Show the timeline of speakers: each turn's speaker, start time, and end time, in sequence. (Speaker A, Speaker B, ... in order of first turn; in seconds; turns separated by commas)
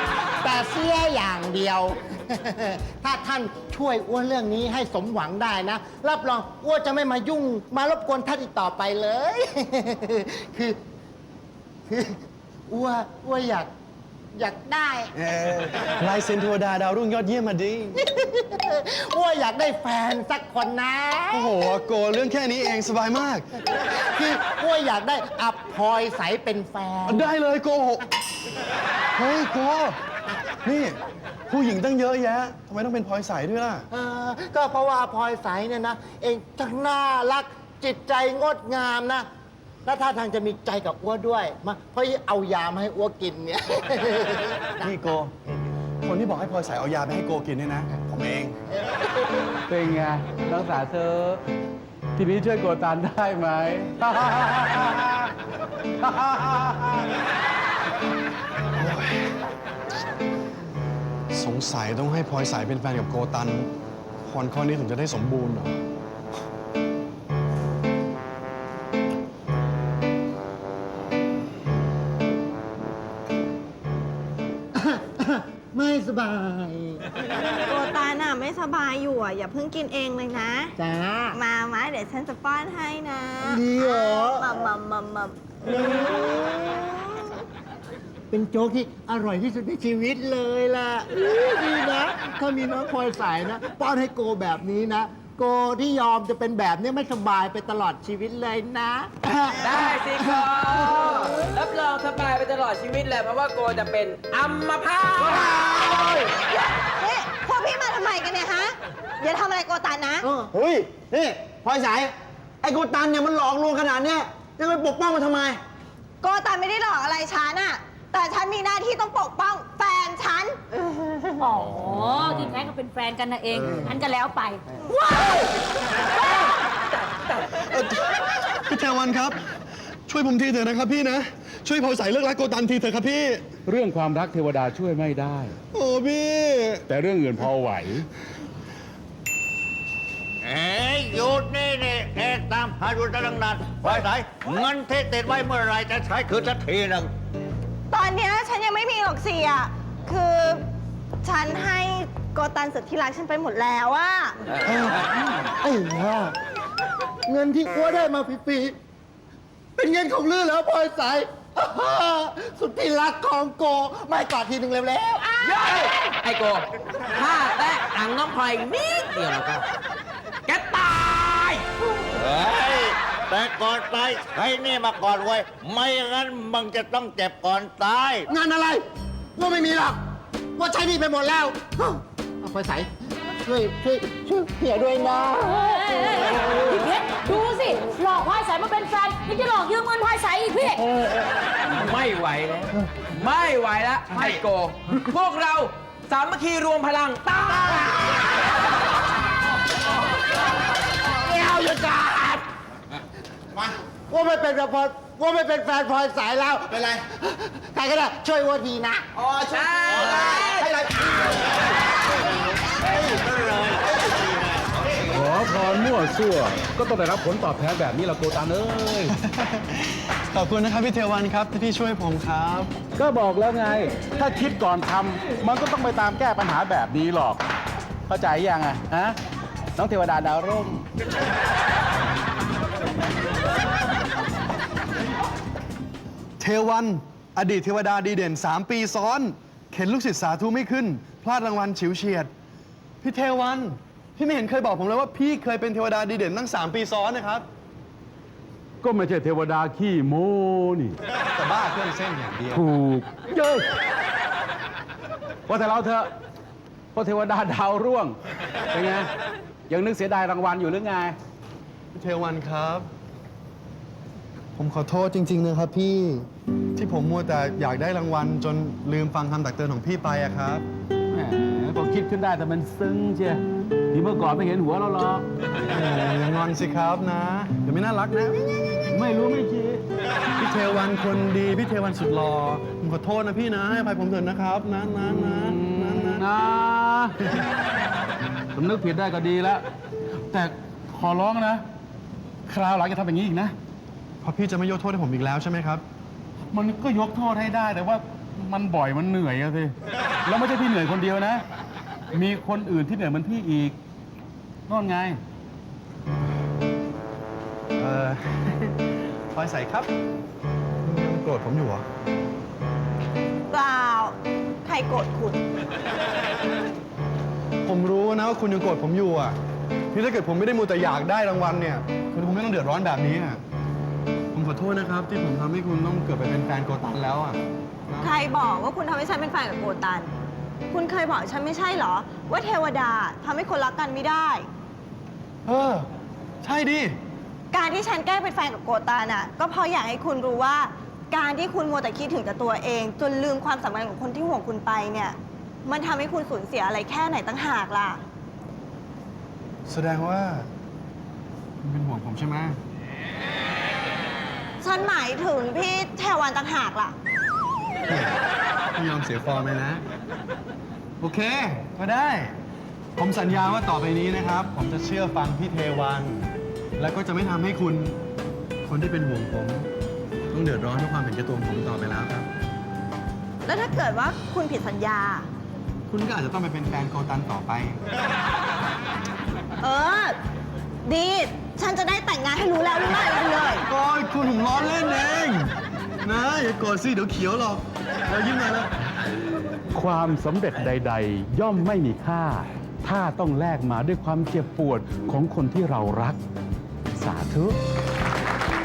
Speaker A: 0.4-10.8, Speaker A: 11.9-13.7, Speaker A: 14.3-15.1, Speaker B: 15.2-18.0, Speaker A: 18.0-21.5, Speaker B: 21.3-23.4, Speaker A: 23.8-27.3, Speaker B: 27.1-28.1, Speaker B: 29.1-30.0, Speaker B: 30.6-33.9, Speaker A: 33.9-39.3, Speaker A: 39.8-44.8, Speaker B: 44.8-45.3, Speaker B: 46.0-48.6, Speaker C: 49.7-51.4, Speaker C: 52.2-55.3, Speaker C: 56.0-57.1, Speaker B: 58.8-59.2, Speaker B: 61.3-63.7, Speaker B: 64.2-65.8, Speaker A: 74.7-77.0, Speaker D: 77.5-80.7, Speaker A: 80.8-81.4, Speaker D: 81.3-85.4, Speaker A: 83.4-84.5, Speaker A: 85.6-87.3, Speaker A: 88.3-100.4, Speaker E: 99.6-105.6, Speaker F: 105.4-105.8, Speaker D: 106.5-110.3, Speaker F: 110.5-115.6, Speaker D: 116.2-120.6, Speaker G: 121.4-124.6, Speaker D: 124.9-125.3, Speaker B: 127.5-129.4, Speaker B: 130.1-133.4, Speaker C: 133.7-135.6, Speaker B: 135.7-136.8, Speaker C: 136.9-138.1, Speaker H: 140.4-147.1, Speaker D: 147.9-150.6, Speaker D: 151.2-154.4, Speaker A: 154.7-156.3, Speaker A: 157.3-158.8, Speaker A: 159.8-165.8, Speaker E: 165.4-169.7, Speaker E: 170.5-171.7, Speaker H: 172.1-178.3, Speaker A: 178.3-178.8, Speaker A: 179.4-180.0, Speaker A: 180.6-186.2, Speaker G: 185.9-190.9, Speaker E: 191.7-198.1, Speaker A: 201.2-202.4, Speaker A: 204.1-209.0, Speaker F: 209.2-210.9, Speaker E: 209.5-210.6, Speaker C: 215.1-219.2, Speaker B: 219.2-219.7, Speaker B: 220.3-222.7, Speaker C: 223.0-227.4, Speaker C: 228.1-229.2, Speaker C: 229.8-230.8, Speaker B: 236.4-242.3, Speaker B: 243.0-247.5, Speaker C: 248.8-251.0, Speaker B: 251.3-252.7, Speaker C: 252.5-253.7, Speaker C: 255.5-256.1, Speaker C: 256.9-258.2, Speaker C: 258.7-259.1, Speaker C: 259.7-261.1, Speaker B: 261.9-262.9, Speaker B: 264.6-270.6, Speaker C: 271.1-273.4, Speaker C: 273.9-275.2, Speaker B: 275.6-278.8, Speaker C: 278.9-279.8, Speaker B: 280.4-286.3, Speaker C: 285.0-287.3, Speaker C: 288.5-289.6, Speaker C: 290.3-291.6, Speaker C: 292.5-293.5, Speaker B: 294.2-295.8, Speaker C: 296.5-299.8, Speaker C: 300.2-301.4, Speaker C: 302.1-303.8, Speaker C: 304.7-305.2, Speaker B: 307.8-308.8, Speaker B: 309.3-309.9, Speaker B: 310.8-311.8, Speaker D: 313.5-315.4, Speaker B: 317.6-319.4, Speaker B: 319.9-323.4, Speaker B: 324.3-328.1, Speaker D: 328.0-330.1, Speaker D: 330.7-334.4, Speaker B: 335.4-335.9, Speaker B: 336.4-336.9, Speaker D: 337.5-348.0, Speaker B: 349.7-350.5, Speaker B: 351.6-352.6, Speaker D: 354.6-356.9, Speaker B: 357.9-358.2, Speaker B: 358.8-359.8, Speaker B: 361.0-362.3, Speaker B: 363.0-368.0, Speaker B: 368.6-369.7, Speaker B: 370.3-372.3, Speaker D: 373.4-375.3, Speaker B: 375.9-377.8, Speaker D: 379.6-380.1, Speaker D: 380.9-383.6, Speaker B: 383.6-385.5, Speaker B: 386.0-388.7, Speaker C: 389.7-396.2, Speaker C: 396.9-397.6